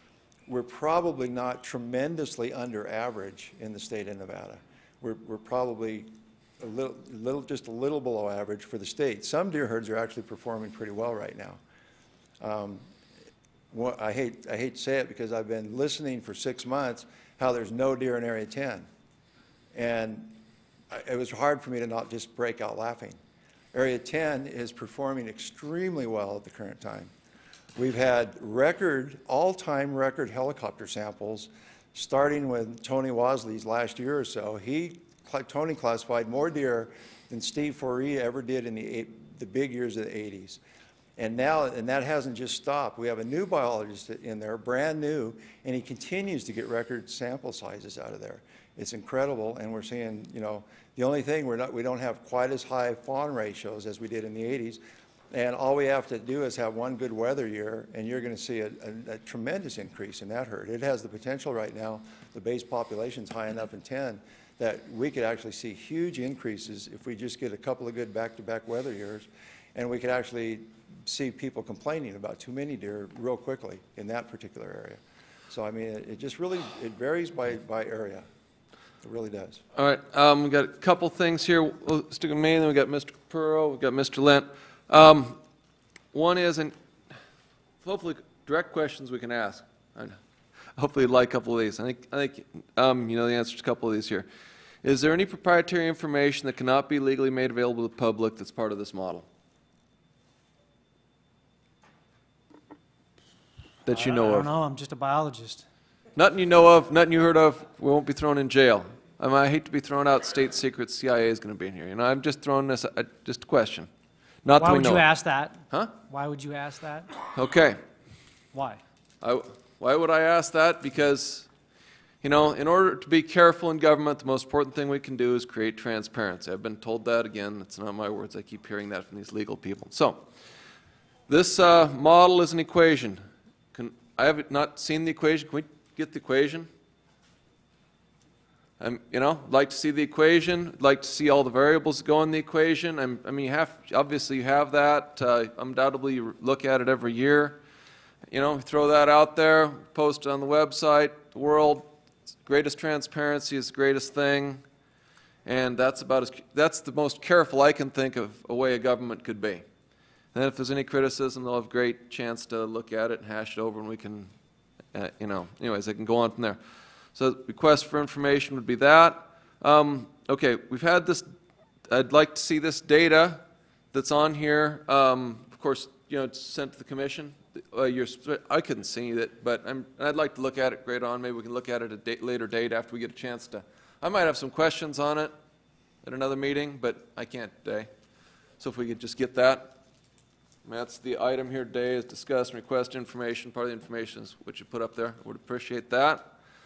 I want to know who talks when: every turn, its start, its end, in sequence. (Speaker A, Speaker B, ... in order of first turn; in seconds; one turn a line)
Speaker A: 0.5-11.6
Speaker A: 12.4-12.8
Speaker A: 13.7-18.9
Speaker A: 19.7-20.4
Speaker A: 20.9-23.2
Speaker A: 23.7-27.1
Speaker A: 27.8-40.6
Speaker A: 41.2-54.8
Speaker A: 55.3-78.3
Speaker A: 79.0-79.6
Speaker B: 79.7-85.4
Speaker B: 86.1-86.7
Speaker B: 87.8-90.2
Speaker B: 90.8-94.2
Speaker B: 94.8-99.2
Speaker B: 103.8-104.5
Speaker C: 103.9-105.7
Speaker B: 106.2-113.9
Speaker B: 114.4-115.0
Speaker C: 114.6-117.1
Speaker B: 117.3-117.8
Speaker C: 118.5-118.8
Speaker B: 119.2-121.5
Speaker B: 122.2-130.2
Speaker B: 131.3-136.7
Speaker B: 138.8-147.6
Speaker B: 148.3-151.9
Speaker B: 152.4-154.6
Speaker B: 155.4-159.6
Speaker B: 160.3-164.3
Speaker B: 164.9-166.6
Speaker B: 167.1-171.3
Speaker B: 171.9-185.3
Speaker B: 186.0-187.9
Speaker B: 188.6-189.7
Speaker B: 190.6-196.3